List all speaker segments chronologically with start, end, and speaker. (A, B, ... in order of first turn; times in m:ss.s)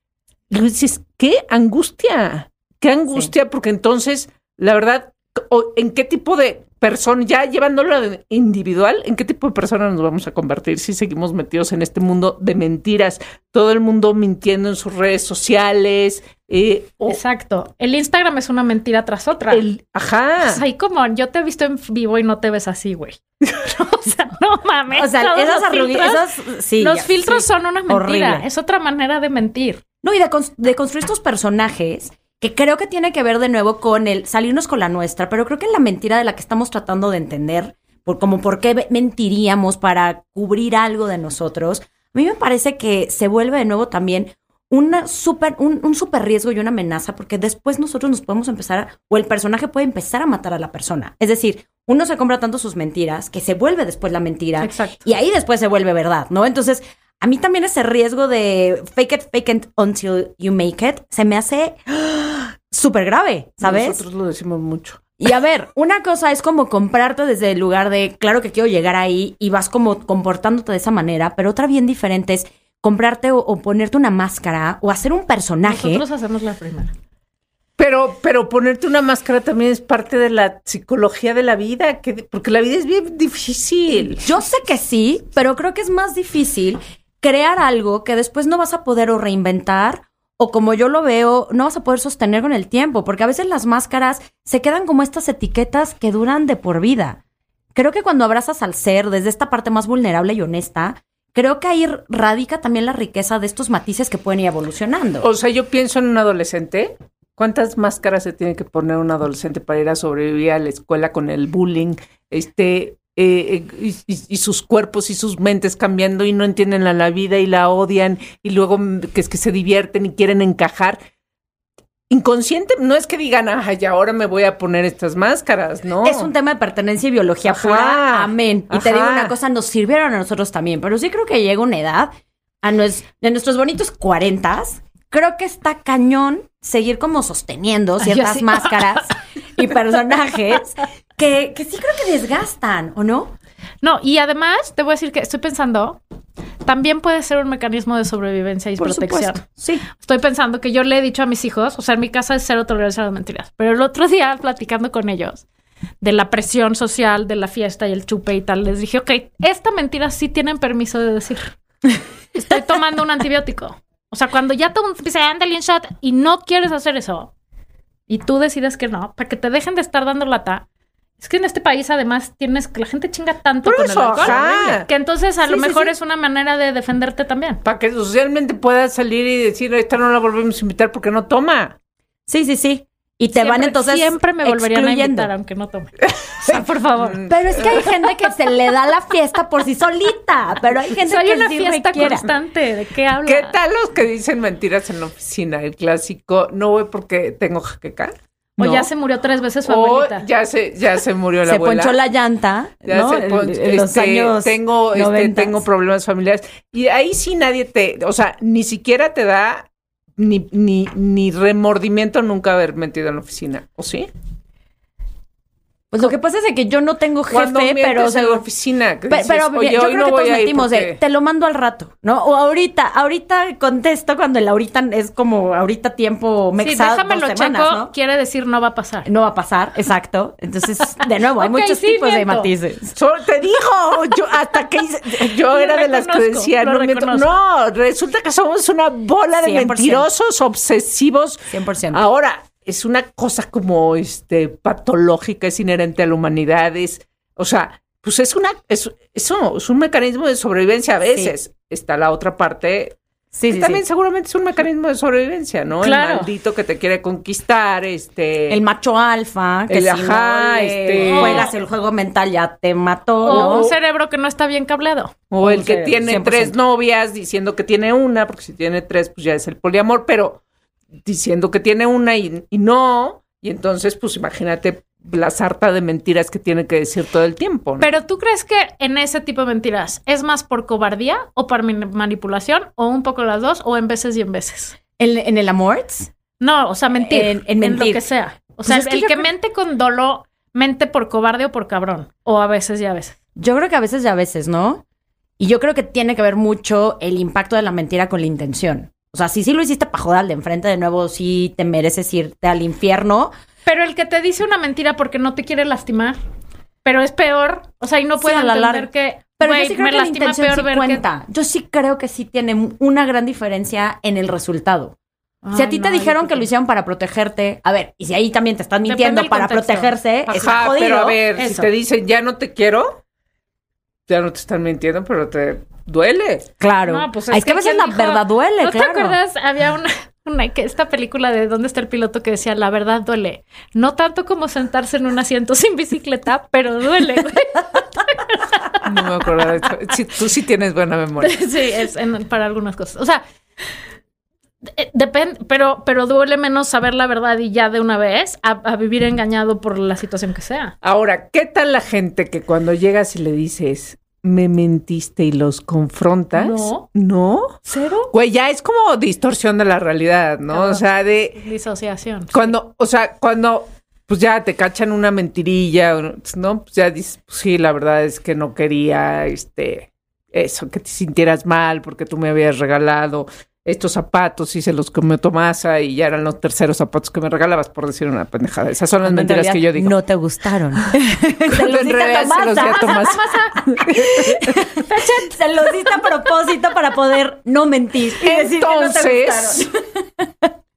0:00.5-0:17.2 A
0:17.1-0:19.6 B
0:19.5-0:20.6 A
0:20.4-0:26.2 B
0:24.9-0:28.4 C
0:26.8-0:29.8 B
0:30.0-1:04.0 C
0:54.6-0:55.1 B
1:03.6-1:05.1 A
1:05.2-1:16.0 C
1:15.6-1:16.9 B
1:17.8-1:24.2 A
1:24.1-1:37.2 C
1:37.8-1:45.3 C
1:45.2-2:01.0 A
2:02.1-2:06.3 A
2:06.0-2:23.3 C
2:07.5-2:09.3 A
2:18.0-2:19.0 B
2:23.8-2:26.0 B
2:26.6-2:35.4 B
2:28.8-2:29.8 C
2:36.0-2:41.6 B
2:42.4-2:47.3 B
2:48.1-2:50.6 B
2:51.2-2:57.6 B
2:53.6-2:54.9 A
2:54.2-2:54.8 C
2:55.4-2:55.9 A
2:57.6-3:01.8 A
3:02.3-3:05.3 C
3:03.3-3:07.3 B
3:06.5-3:07.9 A
3:07.3-3:12.3 C
3:11.0-3:13.6 B
3:13.2-3:18.1 A
3:18.6-3:18.9 C
3:18.6-3:20.3 B
3:19.6-3:22.0 A
3:21.4-3:25.6 C
3:22.8-3:34.1 A
3:35.9-3:38.4 C
3:37.3-3:41.0 A
3:39.1-3:47.9 C
3:46.6-3:49.1 B
3:49.0-3:52.9 C
3:51.4-3:52.5 B
3:53.0-4:13.0 A
3:55.4-3:57.3 B
3:59.4-4:00.1 C
4:01.5-4:02.0 C
4:11.1-4:11.4 C
4:13.3-4:13.8 C
4:13.5-4:18.6 A
4:15.8-4:16.3 B
4:18.5-4:23.7 C
4:19.7-4:21.5 A
4:21.0-4:21.5 B
4:23.3-4:23.8 A
4:23.3-4:25.1 B
4:25.3-4:30.4 A
4:25.4-4:26.6 C
4:31.0-4:37.9 A
4:37.8-4:44.8 B
4:45.0-4:46.1 C
4:46.4-4:53.1 B
4:47.0-4:48.0 C
4:48.6-4:49.3 C
4:53.4-4:54.8 C
4:55.4-5:03.3 C
5:03.6-5:06.2 B
5:06.8-5:11.0 B
5:08.2-5:14.9 C
5:15.4-5:16.4 B
5:15.5-5:21.7 C
5:18.8-5:19.9 B
5:20.3-5:23.0 A
5:24.1-5:26.5 A
5:26.6-5:29.2 C
5:26.8-5:38.8 B
5:38.8-5:41.4 A
5:41.2-5:43.2 B
5:44.8-5:50.7 B
5:50.8-5:57.6 A
5:56.3-5:56.9 B
5:57.6-5:58.1 B
5:58.1-6:01.4 A
6:00.5-6:02.5 B
6:02.3-6:20.0 A
6:19.0-6:30.5 C
6:21.5-6:24.5 A
6:22.7-6:23.6 B
6:24.7-6:25.4 B
6:28.2-6:29.7 A